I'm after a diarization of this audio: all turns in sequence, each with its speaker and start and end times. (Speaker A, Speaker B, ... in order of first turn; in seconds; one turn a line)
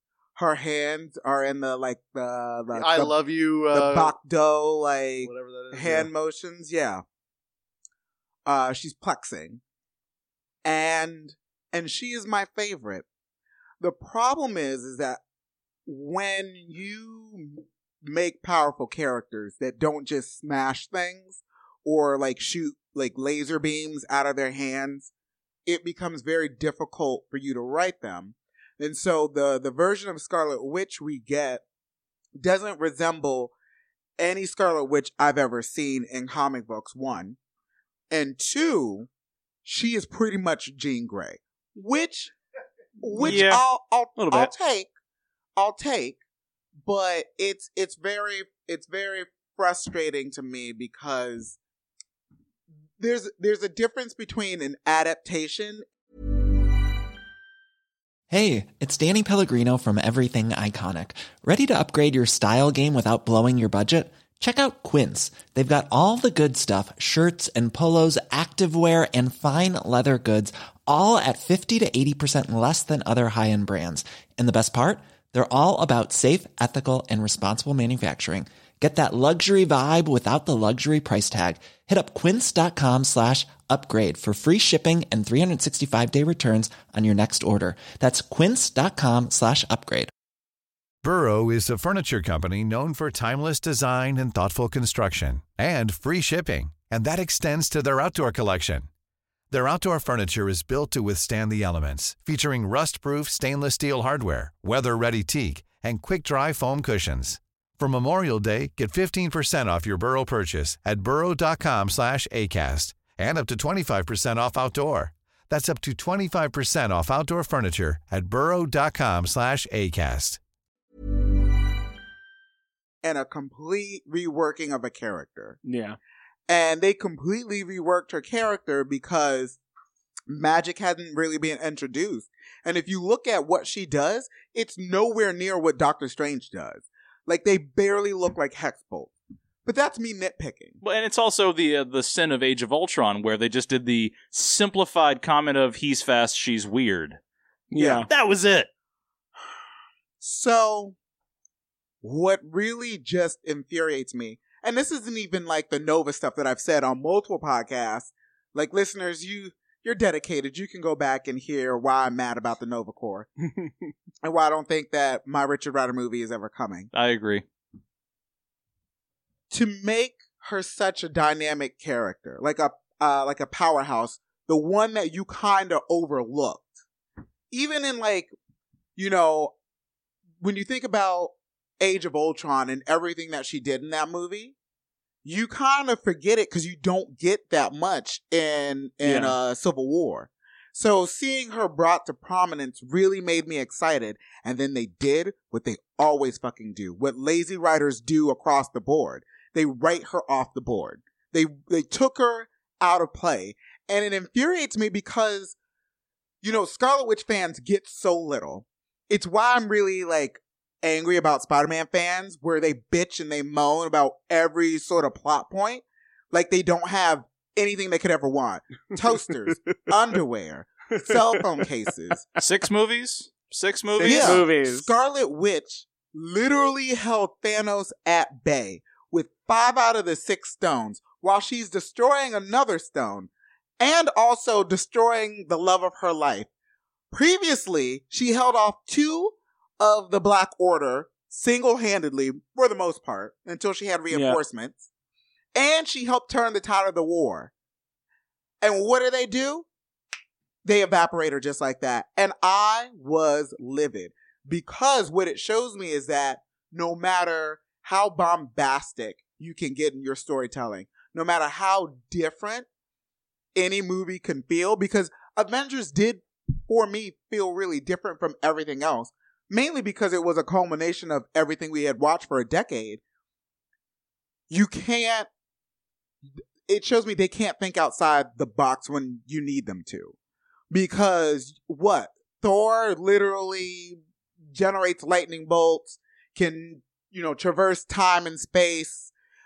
Speaker A: 0.4-3.2
Speaker B: 2.7-4.1
Speaker A: 3.7-7.0
Speaker B: 5.2-6.1
Speaker A: 8.4-9.6
Speaker A: 10.6-13.1
Speaker A: 13.8-15.2
Speaker A: 15.9-25.1
Speaker A: 25.6-31.6
Speaker A: 32.4-33.5
Speaker A: 34.2-37.4
Speaker A: 38.1-39.1
Speaker A: 39.6-42.3
Speaker A: 43.0-44.9
Speaker C: 43.2-43.6
Speaker C: 44.2-44.5
Speaker A: 45.6-46.2
Speaker A: 46.9-51.6
Speaker A: 53.0-55.9
Speaker D: 58.3-90.1
Speaker E: 91.0-98.9
Speaker E: 99.5-120.4
Speaker A: 123.0-125.6
Speaker F: 125.6-126.0
Speaker A: 126.5-129.6
Speaker A: 130.3-139.1
Speaker A: 139.6-140.8
Speaker C: 140.8-147.2
Speaker F: 147.7-148.1
Speaker A: 147.8-148.1
Speaker C: 148.1-148.7
Speaker A: 150.2-150.9
Speaker A: 152.0-163.3
Speaker A: 164.2-166.9
Speaker C: 166.9-167.4
Speaker A: 169.5-176.7
Speaker A: 177.5-178.3
Speaker A: 178.9-179.5
Speaker A: 180.4-184.6
Speaker A: 185.2-205.6
Speaker F: 189.0-189.4
Speaker A: 206.4-222.2
Speaker C: 222.4-224.5
Speaker F: 224.0-224.9
Speaker A: 224.0-236.5
Speaker A: 237.1-244.9
Speaker F: 244.1-244.4
Speaker A: 245.6-247.5
Speaker A: 248.6-249.7
Speaker A: 250.6-262.6
Speaker A: 263.6-273.0
Speaker A: 274.5-275.3
Speaker A: 276.7-280.1
Speaker A: 280.7-284.0
Speaker A: 284.5-289.1